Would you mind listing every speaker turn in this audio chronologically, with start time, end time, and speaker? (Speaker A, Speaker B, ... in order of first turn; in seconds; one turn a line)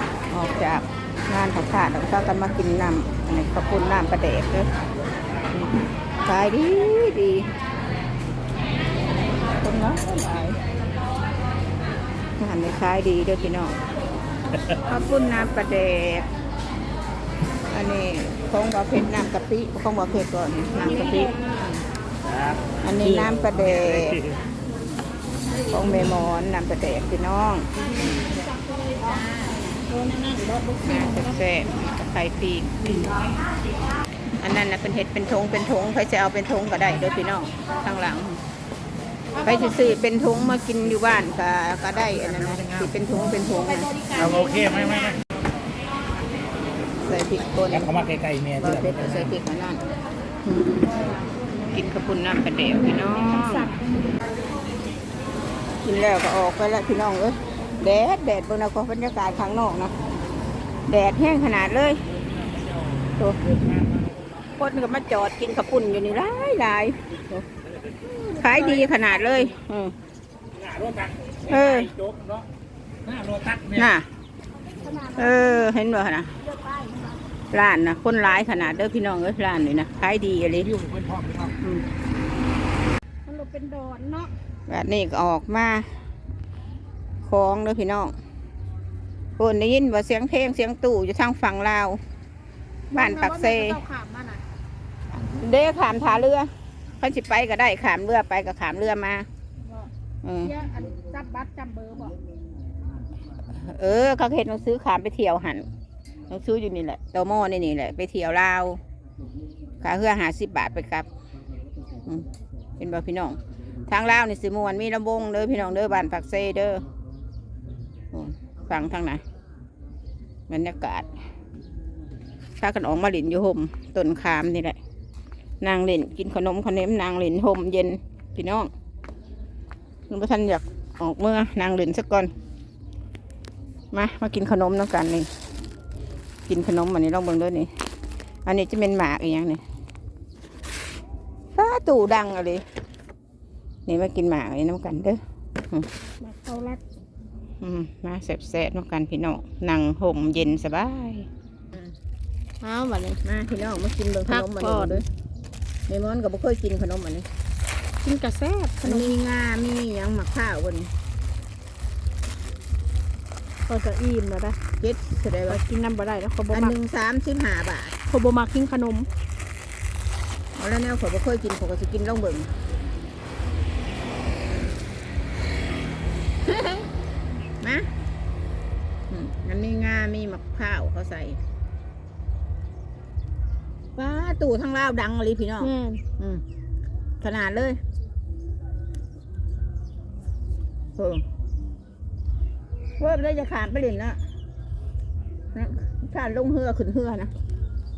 Speaker A: 0.3-4.7
Speaker A: 5.5-7.5
Speaker A: 9.6-10.6
Speaker A: 12.4-13.8
Speaker A: 14.8-16.2
Speaker A: 17.7-21.8
Speaker A: 22.8-24.3
Speaker A: 25.7-27.7
Speaker B: 28.2-31.2
Speaker A: 30.8-32.8
Speaker A: 34.4-38.4
Speaker A: 39.4-44.1
Speaker B: 44.2-44.7
Speaker C: 44.2-45.2
Speaker A: 47.0-49.8
Speaker C: 47.9-48.5
Speaker A: 50.5-50.9
Speaker A: 51.7-53.7
Speaker B: 53.1-53.7
Speaker A: 55.8-59.9
Speaker A: 60.9-62.0
Speaker C: 62.4-63.0
Speaker C: 63.7-64.2
Speaker A: 64.5-67.4
Speaker B: 68.0-69.1
Speaker A: 68.3-69.9
Speaker C: 70.5-72.5
Speaker A: 71.4-71.9
Speaker C: 73.0-73.8
Speaker A: 73.7-74.1
Speaker B: 74.6-75.7
Speaker A: 75.1-76.4
Speaker B: 76.4-77.2
Speaker A: 77.5-80.8
Speaker C: 80.7-81.5
Speaker A: 81.6-81.9
Speaker B: 83.2-84.3
Speaker A: 84.7-85.9
Speaker A: 87.2-88.1
Speaker A: 89.4-92.0
Speaker B: 92.9-94.4
Speaker A: 92.9-93.8
Speaker A: 95.2-99.3
Speaker B: 99.6-99.9
Speaker A: 100.2-100.5
Speaker B: 100.4-102.2
Speaker A: 103.5-105.7
Speaker A: 106.3-108.8
Speaker A: 109.8-111.1
Speaker A: 112.8-116.8
Speaker A: 118.1-119.2
Speaker A: 120.5-121.1
Speaker A: 122.6-124.8
Speaker A: 125.6-128.7
Speaker A: 130.1-132.3
Speaker A: 133.9-135.3
Speaker A: 136.5-137.7
Speaker A: 138.4-139.6
Speaker A: 141.5-142.6
Speaker A: 143.9-145.2
Speaker B: 146.2-146.8
Speaker A: 147.6-151.9
Speaker B: 152.6-153.2
Speaker A: 153.2-155.0
Speaker B: 154.3-155.0
Speaker A: 155.9-157.2
Speaker B: 158.0-159.1
Speaker A: 158.8-160.9
Speaker B: 163.7-164.6
Speaker A: 164.8-165.6
Speaker B: 165.5-166.7
Speaker A: 166.5-167.9
Speaker B: 168.1-169.1
Speaker A: 170.5-172.5
Speaker A: 176.4-176.9
Speaker A: 177.6-177.9
Speaker A: 179.1-181.4
Speaker A: 183.9-186.4
Speaker B: 185.6-186.0
Speaker A: 187.2-187.8
Speaker A: 191.0-191.2
Speaker A: 193.0-194.2
Speaker A: 195.5-197.3